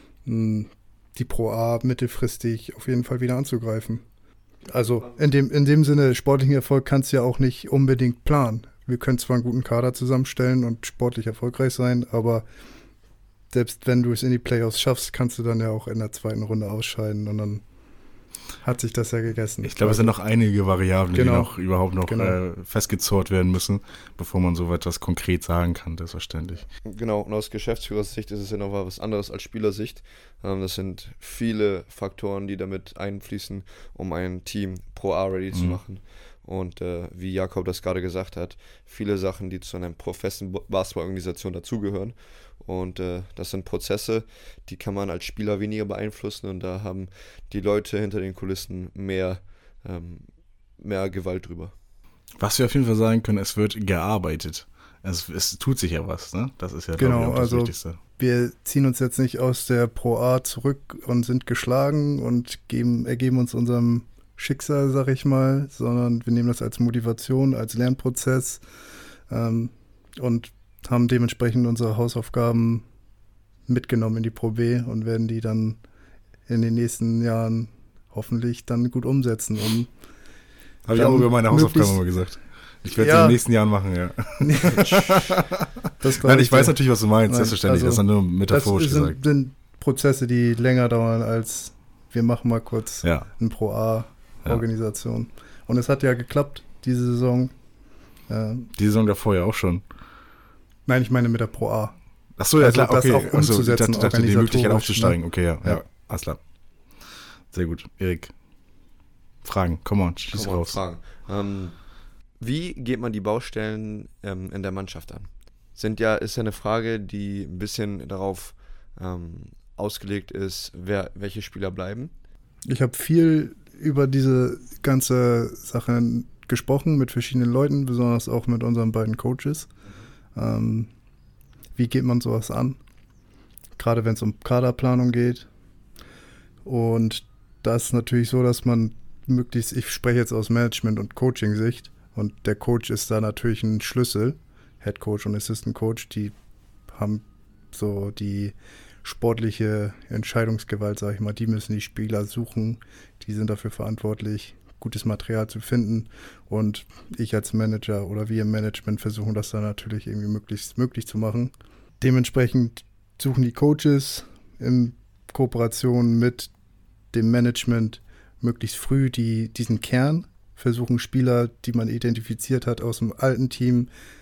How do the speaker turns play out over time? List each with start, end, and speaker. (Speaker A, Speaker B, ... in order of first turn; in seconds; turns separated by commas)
Speaker A: 0.2-4.0, Speaker A: 4.7-12.4, Speaker A: 13.5-17.6, Speaker A: 18.6-20.1, Speaker B: 19.6-26.7, Speaker A: 21.1-22.4, Speaker C: 26.9-50.2, Speaker B: 35.5-35.8, Speaker C: 50.8-51.7, Speaker B: 52.4-58.0, Speaker A: 57.0-68.6, Speaker A: 69.3-72.8, Speaker A: 73.7-75.8, Speaker A: 76.5-79.9, Speaker B: 80.8-85.6, Speaker A: 80.9-82.0, Speaker A: 82.9-83.4, Speaker A: 84.4-85.1, Speaker A: 86.0-97.5, Speaker B: 86.2-89.2, Speaker A: 98.3-98.7, Speaker B: 98.8-99.8, Speaker A: 100.9-102.0, Speaker B: 102.4-106.4, Speaker A: 102.6-105.8, Speaker B: 107.5-108.3, Speaker B: 109.4-110.8, Speaker C: 110.3-111.8, Speaker C: 112.4-122.1, Speaker A: 122.7-129.7, Speaker A: 130.3-130.9, Speaker A: 131.8-132.8, Speaker A: 133.8-135.5, Speaker A: 136.7-146.3, Speaker A: 146.9-166.5, Speaker A: 167.1-173.9